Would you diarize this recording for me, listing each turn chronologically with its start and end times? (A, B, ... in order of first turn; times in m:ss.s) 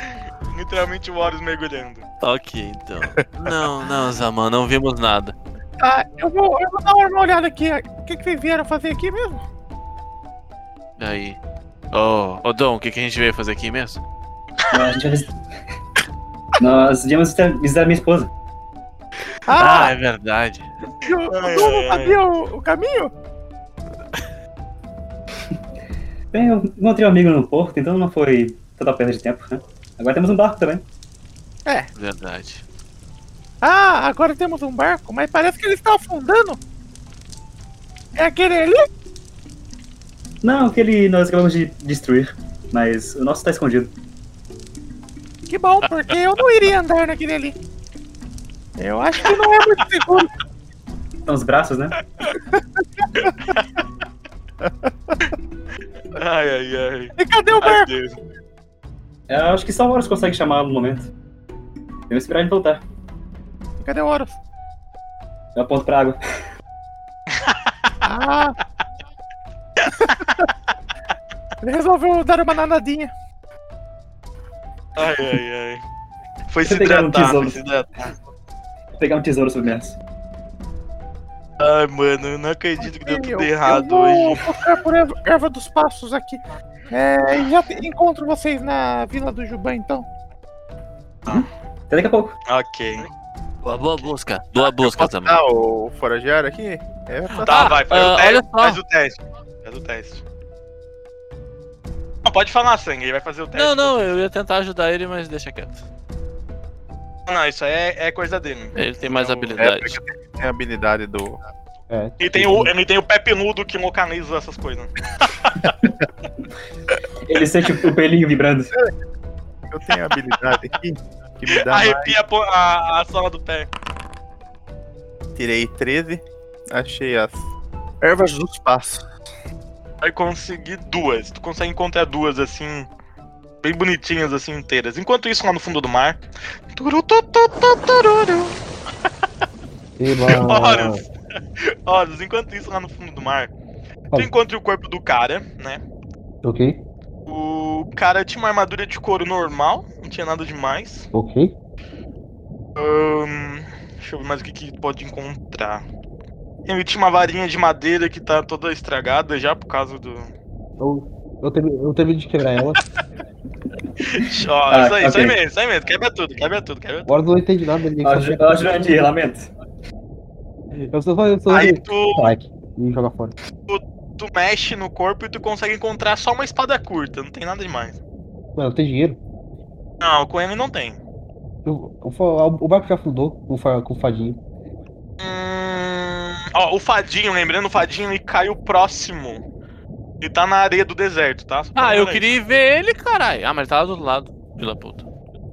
0:00.5-0:02.1 A
0:02.2-0:05.4 B
0:05.8-0:09.4 C
0:11.0-0:11.4 B
0:11.9-0:14.0 B
0:14.7-0:15.4 D
0:16.6-0:18.3 D
0:19.5-0:20.0 C
0:19.5-0:20.7 B
0:21.0-0:23.1 C
0:21.3-0:22.2 A
0:26.3-0:30.8 D
0:32.0-0:32.6 B
0:33.6-0:36.6 C
0:38.2-0:38.9 C
0:40.4-0:43.9 D
0:45.5-0:47.6 C
0:48.8-0:50.3 C
0:51.3-0:52.0 D
0:54.7-0:55.2 E
0:56.2-0:58.2 A
0:57.2-0:57.9 C
0:59.3-1:01.1 D
1:02.1-1:02.8 D
1:03.8-1:04.4 C
1:05.6-1:06.2 D
1:08.0-1:08.6 C
1:09.9-1:10.4 A
1:11.6-1:13.1 C
1:15.0-1:15.8 A
1:16.5-1:17.9 A
1:16.6-1:17.6 D
1:19.0-1:20.0 D
1:21.6-1:24.4 A
1:22.8-1:30.0 C
1:31.3-1:32.3 D
1:32.5-1:33.1 A
1:33.6-1:35.4 B
1:34.6-1:37.8 E
1:37.4-1:38.8 B
1:37.4-1:40.2 A
1:42.2-1:44.0 A
1:43.6-1:45.8 B
1:47.3-1:49.5 A
1:48.8-1:50.0 B
1:49.6-1:51.4 E
1:51.9-1:52.7 F
1:52.2-1:55.8 A
1:57.2-1:58.7 D
1:59.7-2:02.2 E
2:01.5-2:03.7 A
2:05.4-2:07.5 E
2:08.0-2:09.0 E
2:10.0-2:12.9 A
2:13.6-2:16.2 A
2:16.7-2:18.6 A
2:20.0-2:21.0 F
2:20.3-2:23.5 A
2:24.1-2:25.8 A
2:26.4-2:26.8 F
2:27.3-2:31.1 A
2:31.1-2:31.6 F
2:32.8-2:35.8 A
2:36.7-2:40.3 A
2:40.8-2:42.8 F
2:44.0-2:47.2 A
2:44.2-2:45.4 D
2:47.1-2:49.1 F
2:48.0-2:49.5 D
2:50.8-2:53.3 F
2:51.5-2:52.3 A
2:53.7-2:58.0 A
2:58.6-2:59.2 F
3:00.0-3:01.0 A
3:01.6-3:04.4 F
3:05.2-3:09.4 A
3:10.2-3:12.3 A
3:11.8-3:15.1 B